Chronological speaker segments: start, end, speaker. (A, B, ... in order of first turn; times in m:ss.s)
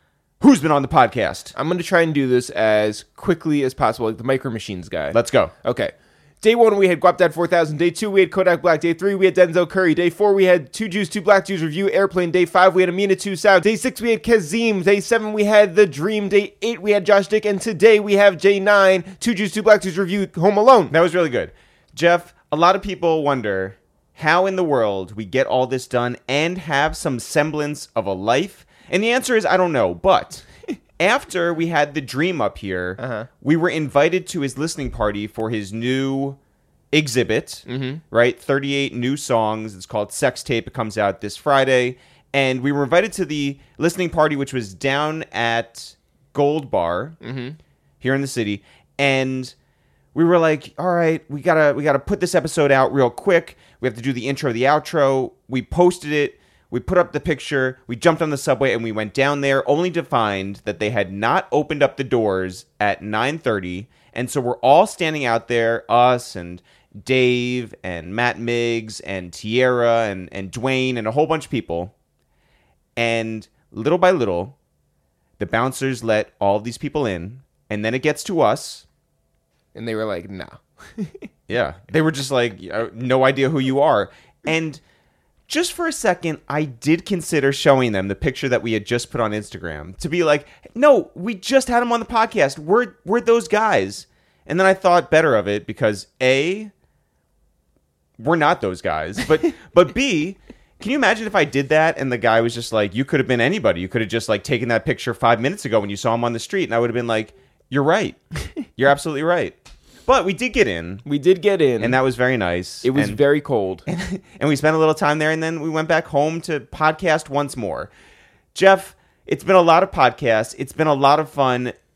0:00.4-0:01.5 A
0:01.5-0:20.9 B
0:05.1-0:05.5 A
0:20.9-0:30.4 A
0:31.0-0:36.4 A
0:33.0-0:33.3 B
0:36.9-0:47.2 A
0:37.7-0:38.0 B
0:47.2-0:47.6 B
0:48.0-0:49.5 A
0:50.1-1:11.9 A
1:13.0-1:14.6 A
1:15.4-1:18.8 A
1:19.8-1:21.2 B
1:21.5-1:24.8 A
1:25.5-1:36.7 A
1:38.2-1:48.2 A
1:48.8-1:49.6 A
1:50.1-1:51.0 A
1:51.0-1:52.0 B
1:51.8-1:53.2 A
1:52.8-1:53.8 B
1:53.9-1:57.9 A
1:58.6-2:01.7 A